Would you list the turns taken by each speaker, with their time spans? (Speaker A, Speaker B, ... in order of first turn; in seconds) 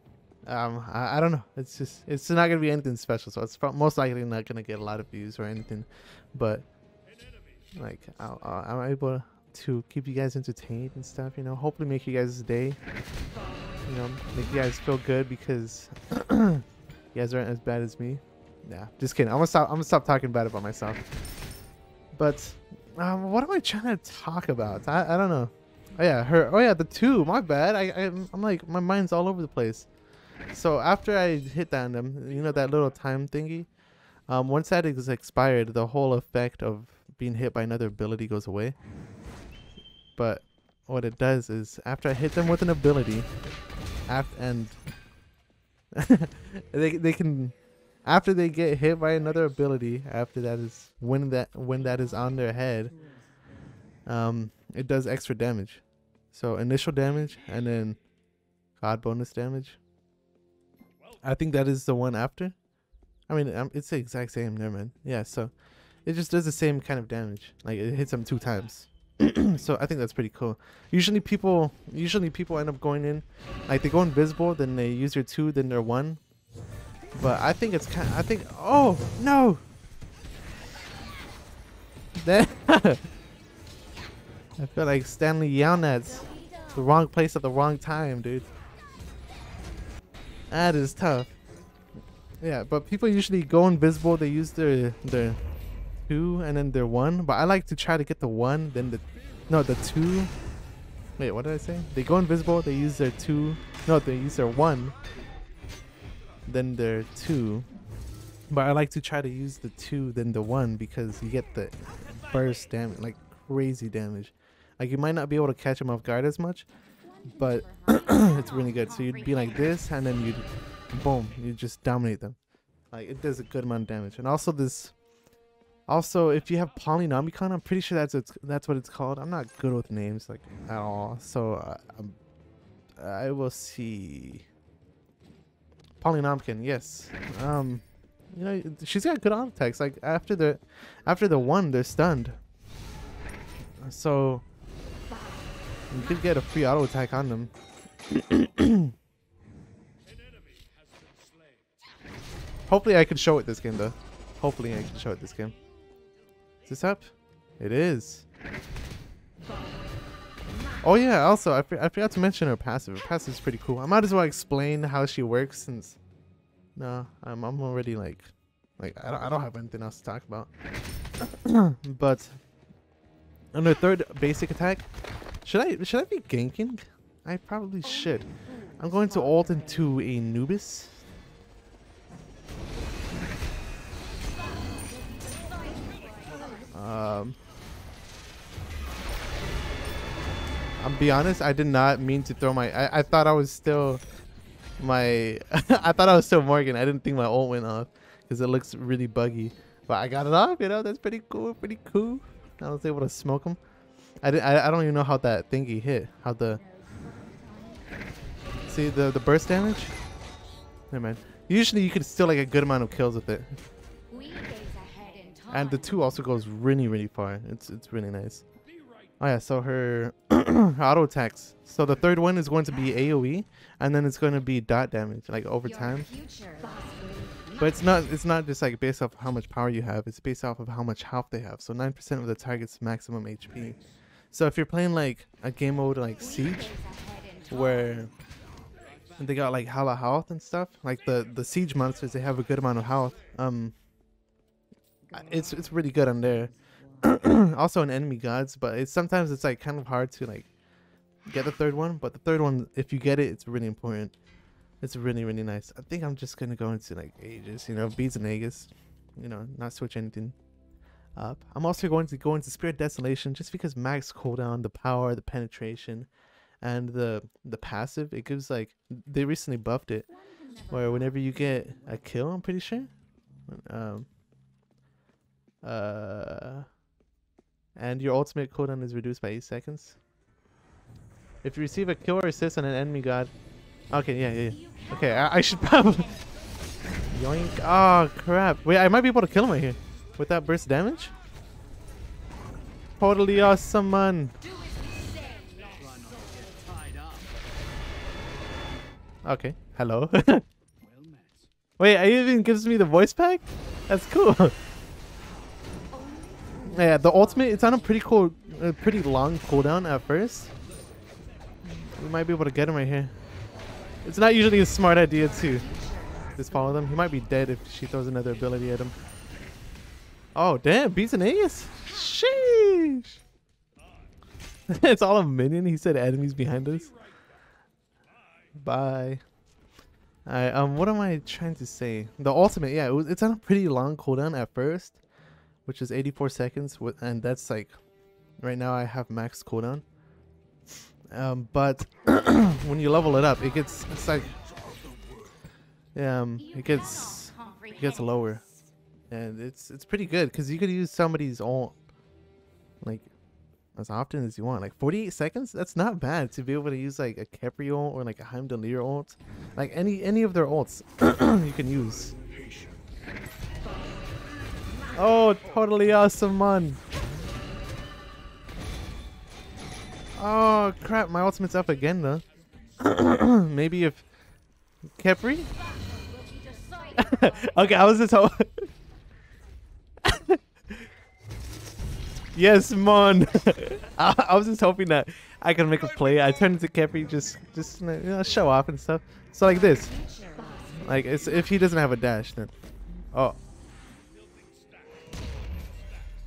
Speaker A: 0.5-6.7, 7.8-12.8, 13.9-21.0, 22.1-29.9, 30.5-33.7, 34.3-38.8, 40.2-43.3, 44.1-44.8, 46.0-52.9, 54.1-58.0, 58.8-59.8, 61.2-62.6, 63.3-65.5, 66.0-76.2, 77.2-79.6, 82.2-83.1, 84.6-88.5, 90.5-91.4, 92.4-95.4, 96.1-100.3, 101.2-105.0, 106.5-107.7, 108.5-116.7, 117.3-122.4, 122.9-125.0, 125.9-132.2, 133.0-134.5, 136.0-142.4, 143.8-144.4, 145.9-147.5, 148.1-148.9, 152.7-155.6, 156.7-158.2, 160.8-166.0, 166.8-170.5, 171.2-172.4, 173.5-174.9, 175.4-181.0, 186.7-187.4, 190.8-194.0, 194.8-203.6, 204.2-206.6, 208.7-209.9, 210.9-213.6, 215.5-218.4, 219.2-226.1, 227.6-233.8, 234.3-236.8, 237.5-238.1, 239.2-243.8, 245.1-250.5, 251.3-254.2, 254.8-260.4, 261.2-266.1, 266.6-270.1, 270.7-272.9, 273.5-274.1, 275.6-276.7, 277.8-280.0, 281.4-283.3, 283.9-286.1, 287.1-291.1, 293.0-294.4, 299.2-300.4, 301.8-304.6, 306.7-310.5, 311.7-313.1, 314.0-315.7, 316.4-318.9, 320.4-323.2, 324.7-326.9, 328.6-329.2, 330.3-335.0, 335.7-337.7, 338.4-339.8, 341.1-344.4, 345.9-348.4, 349.1-351.8, 352.8-353.1, 353.8-362.1, 364.9-366.8, 370.2-372.2, 372.8-374.0, 375.0-375.5, 376.9-378.7, 380.0-380.9, 382.4-389.9, 390.8-392.5
Speaker B: 185.3-186.6, 206.6-208.0, 214.1-215.5, 226.1-227.6, 236.7-237.4, 295.0-296.8, 305.9-306.7, 315.7-316.3, 376.2-377.0, 389.9-390.8